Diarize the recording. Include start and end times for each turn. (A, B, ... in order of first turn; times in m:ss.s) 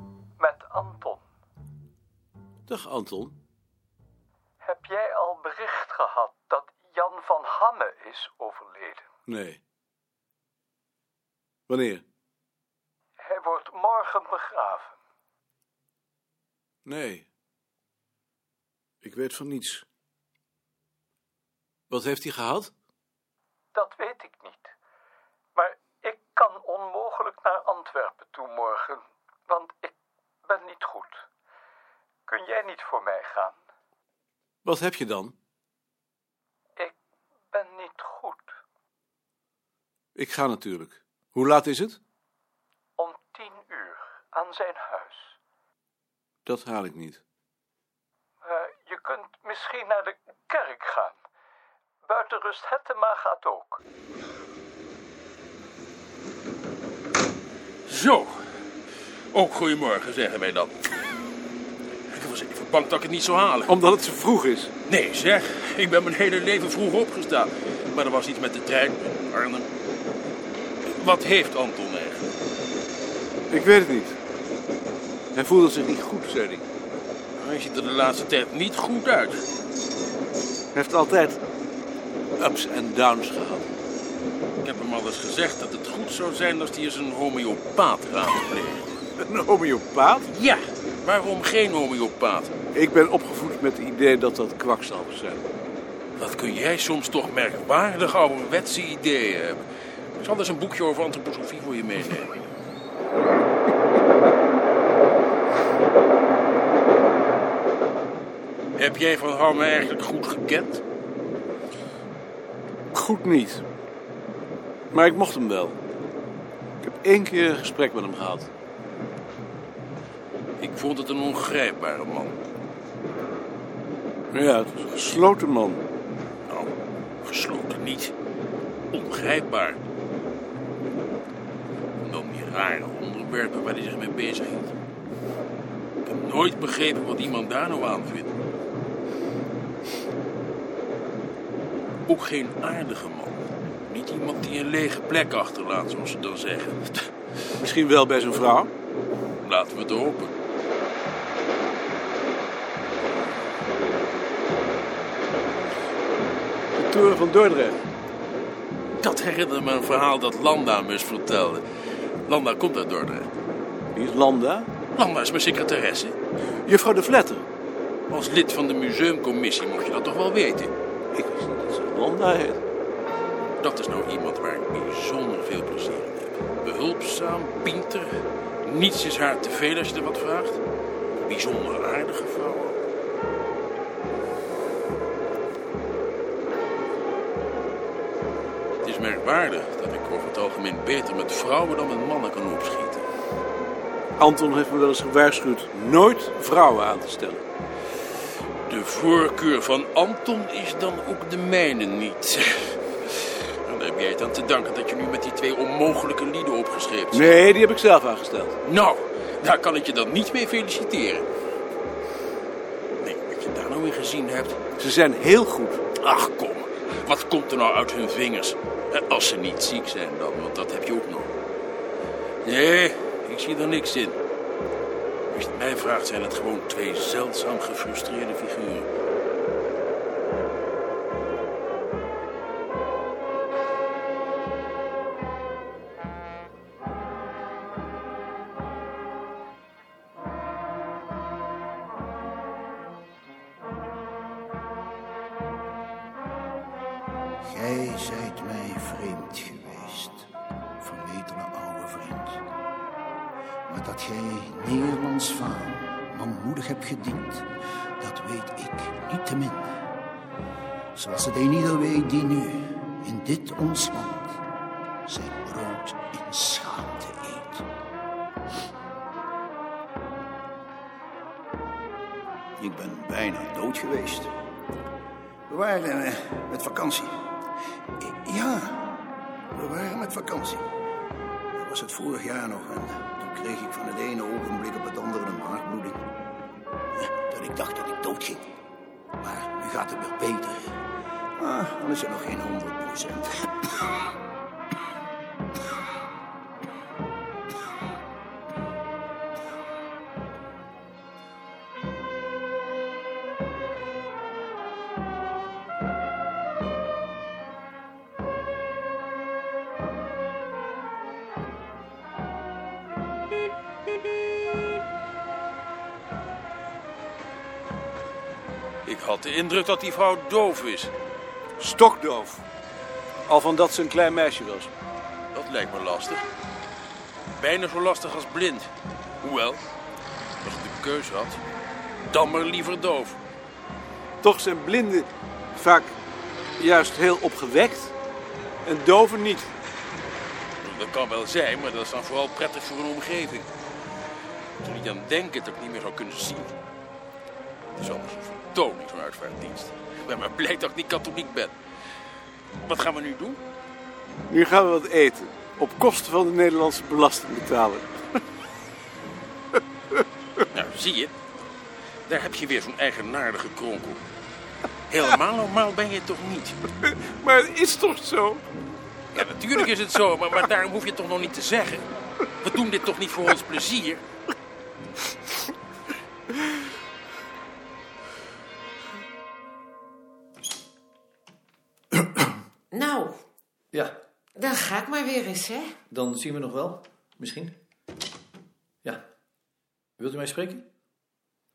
0:00.4-0:01.2 A
0:02.7-0:03.4 B
0:04.6-0:09.0 A
0:09.3-0:09.6 B
0:11.7-0:12.0 B
0:13.2-0:15.0 A
0:16.9-0:17.2 B
0:19.0-0:19.9 B
0:21.9-0:22.7 B
0:23.7-0:24.8 A
0:25.5-0:31.2 A
0:32.3-0:33.6 A
0:34.6-0:35.3 B
0:37.5-0:38.6 A
0:40.1-0:42.0 B
0:43.0-0:45.3 A
0:46.4-0:47.2 B
0:48.4-0:51.2 A
0:52.0-0:53.8 A
0:57.9-0:58.7 C
0:59.3-1:01.2 C
1:02.1-1:03.7 C
1:03.7-1:04.7 B
1:04.9-1:09.7 C
1:10.8-1:12.3 C
1:13.5-1:14.2 B
1:15.3-1:16.7 B
1:17.4-1:19.4 C
1:20.7-1:21.4 B
1:22.4-1:23.7 B
1:24.6-1:29.0 C
1:29.2-1:30.3 B
1:30.3-1:32.5 C
1:32.7-1:35.4 B
1:36.2-1:39.6 C
1:40.2-1:42.4 C
1:48.8-1:50.8 C
1:52.9-1:53.6 B
1:54.9-1:55.8 B
1:56.8-1:58.5 B
2:00.6-2:02.4 C
2:04.3-2:05.8 B
2:06.5-2:08.1 C
2:08.9-2:09.8 C
2:12.0-2:14.8 C
2:16.0-2:18.4 C
2:22.1-2:27.1 C
2:27.6-2:28.7 B
2:29.4-2:30.3 C
2:36.8-2:37.9 B
2:39.0-2:43.3 C
2:43.9-2:44.7 B
2:45.0-2:46.2 C
2:46.6-2:47.4 B
2:48.1-2:50.7 C
2:51.1-2:52.6 B
2:53.6-3:00.6 C
3:01.2-3:02.8 C
3:08.8-3:13.1 C
3:14.2-3:17.4 B
3:18.7-3:27.3 C
3:27.1-3:28.6 B
3:28.6-3:31.3 C
3:33.0-3:34.6 C
3:34.8-3:35.8 B
3:36.0-3:41.4 C
3:42.4-3:44.2 C
3:45.3-3:48.9 C
4:07.4-4:10.3 D
4:10.8-4:12.4 D
4:13.7-4:19.7 D
4:20.9-4:24.4 D
4:25.1-4:27.7 D
4:32.6-4:34.4 D
4:35.5-4:37.2 D
4:38.0-4:40.7 D
4:41.5-4:46.1 D
4:47.0-4:48.5 D
4:49.2-4:50.8 D
4:51.4-4:53.6 D
5:18.8-5:20.9 C
5:21.6-5:22.4 B
5:23.3-5:24.7 B
5:25.3-5:26.2 C
5:27.4-5:28.7 C
5:29.2-5:29.7 C
5:30.4-5:31.4 C
5:32.1-5:33.2 C
5:34.2-5:36.0 B
5:36.6-5:38.0 B
5:38.6-5:39.5 B
5:40.6-5:43.5 C
5:44.6-5:46.5 C
5:47.8-5:51.6 C
5:52.6-5:53.4 C
5:54.3-5:58.1 B
6:00.5-6:01.1 C
6:02.1-6:04.0 C
6:04.9-6:06.7 C
6:06.8-6:08.4 B
6:09.1-6:11.9 C
6:12.4-6:14.0 C
6:22.7-6:23.2 E
6:24.4-6:25.8 E
6:25.9-6:27.6 F
6:30.0-6:30.7 F